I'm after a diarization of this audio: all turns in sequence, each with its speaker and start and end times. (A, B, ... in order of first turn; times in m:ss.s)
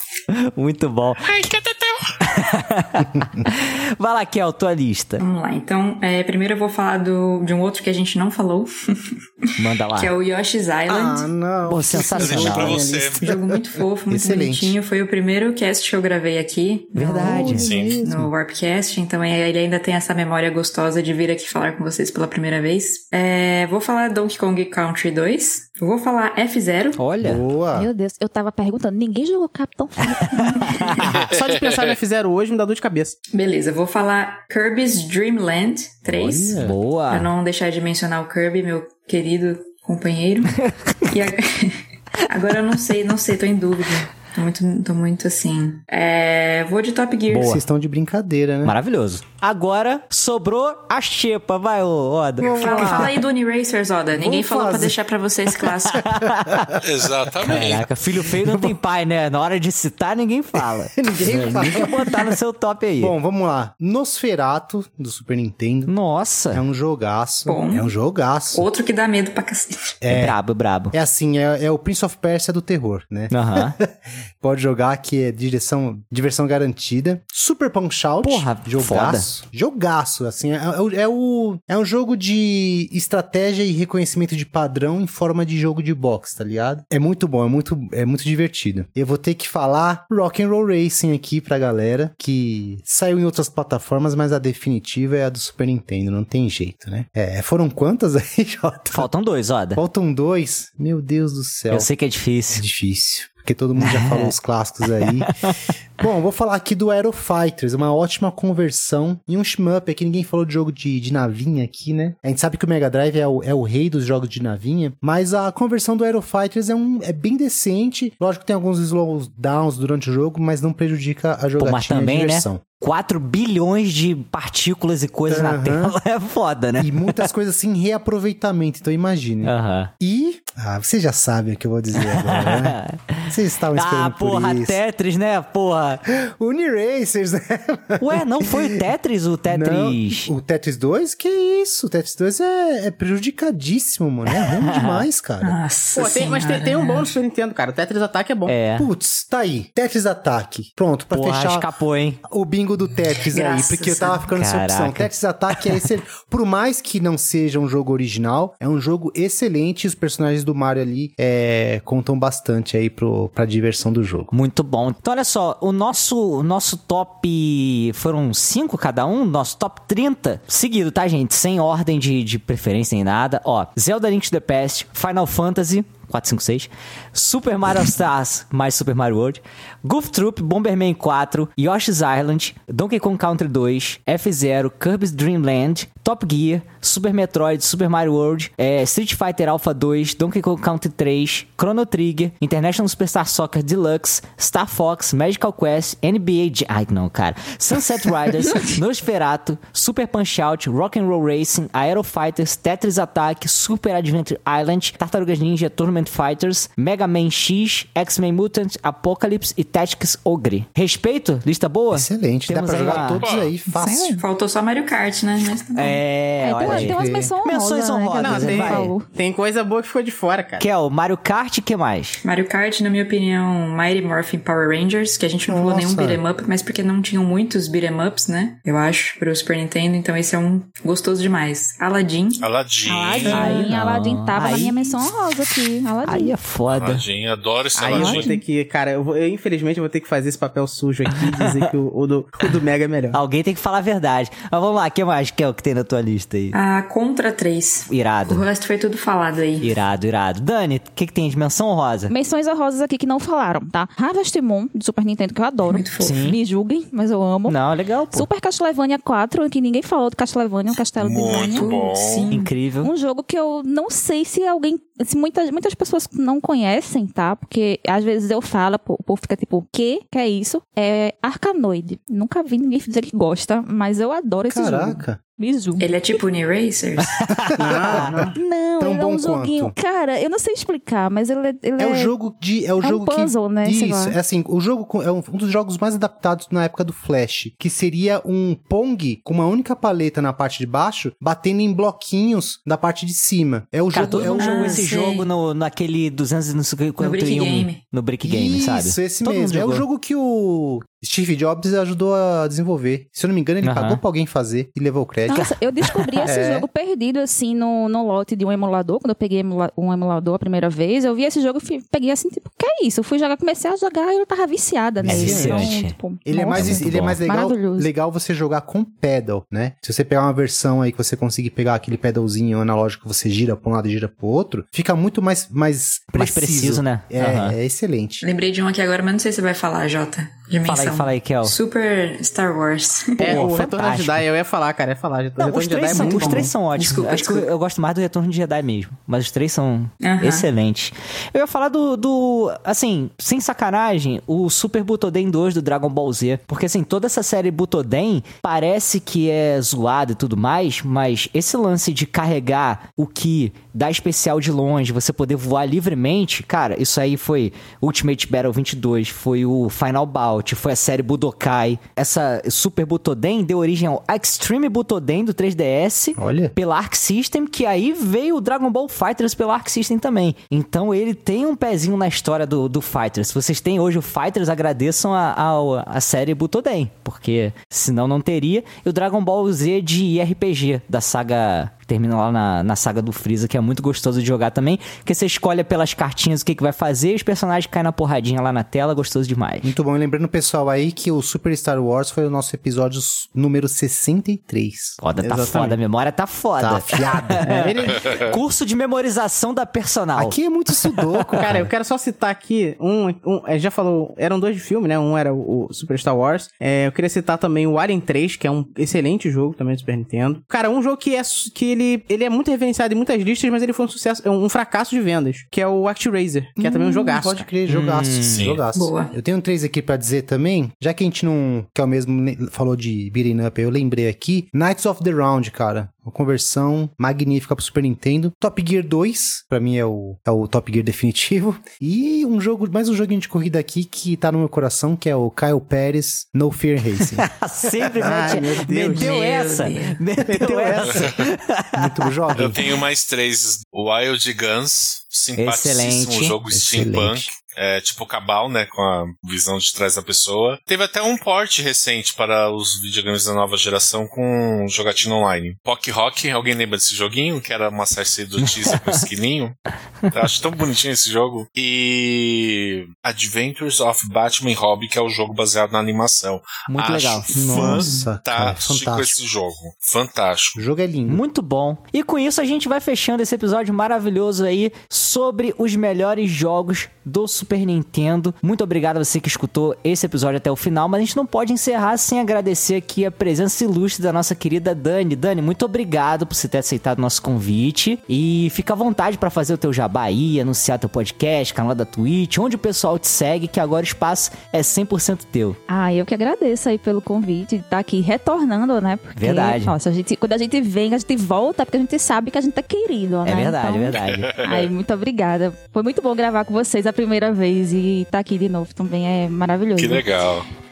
0:00.3-0:01.4 A
0:01.2-0:02.1 B
0:02.2-0:05.2 A
0:05.2-0:11.3 C
0:09.6-0:10.1 A
0:10.9-0:14.8 D
0:11.6-0:12.8 A
0:12.1-0:13.2 B
0:13.2-0:27.0 C
0:17.0-0:17.7 A
0:17.1-0:18.3 D
0:17.6-0:18.0 B
0:27.0-0:27.4 A
0:27.2-0:27.9 D
0:27.7-0:30.9 E
0:30.1-0:31.3 A
0:30.3-0:30.8 C
0:31.0-0:32.0 B
0:31.3-0:33.2 F
0:33.3-0:40.6 C
0:36.1-0:36.8 D
0:36.6-0:37.3 A
0:40.6-0:41.0 A
0:41.1-0:47.6 C
0:47.3-0:48.8 D
0:47.3-0:47.6 A
0:48.6-0:53.1 A
0:52.4-0:53.2 D
0:52.5-0:56.1 C
0:54.1-0:55.0 D
0:56.0-0:56.7 A
0:56.0-0:56.7 D
0:56.8-0:57.9 B
0:57.4-1:03.1 A
0:58.4-0:58.7 D
1:00.9-1:02.4 D
1:03.0-1:05.9 D
1:05.9-1:06.6 A
1:06.5-1:08.6 D
1:07.4-1:07.9 C
1:08.5-1:10.0 C
1:10.0-1:10.4 D
1:10.1-1:10.9 A
1:10.9-1:39.1 D
1:13.3-1:13.8 A
1:18.2-1:19.3 A
1:38.9-1:39.8 A
1:39.7-1:41.9 D
1:41.7-1:42.6 A
1:42.5-1:45.3 D
1:43.8-1:44.3 A
1:45.0-1:45.6 A
1:46.0-2:02.6 D
2:01.6-2:07.1 A
2:05.3-2:06.0 D
2:06.8-2:14.8 D
2:09.4-2:09.9 A
2:12.0-2:16.0 A
2:16.2-2:18.7 D
2:18.0-2:20.3 A
2:19.4-2:25.6 D
2:24.4-2:25.0 A
2:25.4-2:27.1 C
2:26.0-2:28.6 F
2:28.5-2:28.9 A
2:28.8-2:31.7 D
2:31.1-2:32.2 A
2:32.3-2:44.3 D
2:33.2-2:34.2 C
2:34.4-2:35.8 A
2:44.3-3:33.2 A
3:31.9-3:34.2 D
3:32.9-3:33.5 B
3:33.6-3:34.2 E
3:34.2-3:36.0 C
3:35.8-3:39.0 A
3:36.4-3:39.0 E
3:36.6-3:37.3 D
3:38.1-3:40.6 F
3:40.6-3:42.2 A
3:42.2-3:52.4 C
3:45.4-3:46.2 D
3:52.4-3:53.7 B
3:52.9-3:56.3 E
3:53.2-3:55.0 A
3:56.0-3:57.0 A
3:56.7-3:58.4 B
3:57.8-4:03.2 F
3:57.8-3:58.4 E
3:58.0-3:58.2 A
4:01.1-4:01.6 A
4:03.1-4:06.5 A
4:06.5-4:09.7 C
4:07.9-4:08.4 A
4:09.6-4:12.1 A
4:12.1-4:17.6 E
4:15.6-4:16.3 C
4:16.0-4:16.4 A
4:17.5-4:18.3 A
4:18.1-4:21.8 E
4:21.0-4:22.3 B
4:21.5-4:22.5 C
4:22.3-4:22.9 A
4:22.8-4:35.9 E
4:34.5-4:35.2 D
4:35.8-4:37.2 C
4:37.2-4:38.2 A
4:37.5-4:39.7 D
4:37.6-4:38.3 F
4:38.3-4:42.1 E
4:41.8-4:54.8 D
4:42.8-4:44.2 E
4:53.9-4:59.8 A
4:54.3-4:55.3 C
4:57.0-4:57.8 C
4:58.2-5:05.5 D
5:03.6-5:04.0 A
5:05.3-5:17.9 E
5:06.2-5:06.7 D
5:15.0-5:28.2 D
5:15.1-5:16.0 A
5:16.5-5:17.2 A
5:26.1-5:27.5 A
5:28.2-5:33.4 C
5:30.6-5:31.6 A
5:33.2-5:36.5 F
5:33.2-5:34.2 A
5:35.4-6:29.7 A
5:35.9-5:37.5 C
5:40.0-5:40.5 C
6:06.2-6:06.5 D
6:29.6-6:35.0 D
6:35.0-6:40.4 A
6:35.2-6:35.8 F
6:36.6-6:37.6 D
6:37.4-6:38.1 F
6:38.0-6:38.2 B
6:40.1-6:41.7 D
6:41.3-6:57.5 F
6:56.6-7:17.3 D
6:57.7-6:58.5 A
6:58.3-6:58.6 B
6:58.7-6:59.1 C
7:17.1-7:21.9 A
7:18.0-7:19.2 F
7:18.0-7:18.7 D
7:18.9-7:20.0 C
7:20.2-7:21.1 F
7:21.7-7:22.6 D
7:22.4-7:39.5 B
7:25.4-7:26.4 A
7:26.5-7:27.3 D
7:38.5-7:39.0 A
7:40.1-7:50.6 B
7:46.7-7:47.9 A
7:47.3-7:49.2 D
7:50.6-7:51.2 D
7:51.1-8:15.6 A
8:15.7-8:30.1 E
8:19.2-8:19.7 A
8:23.2-8:24.3 A
8:24.0-8:24.7 B
8:29.8-8:30.5 B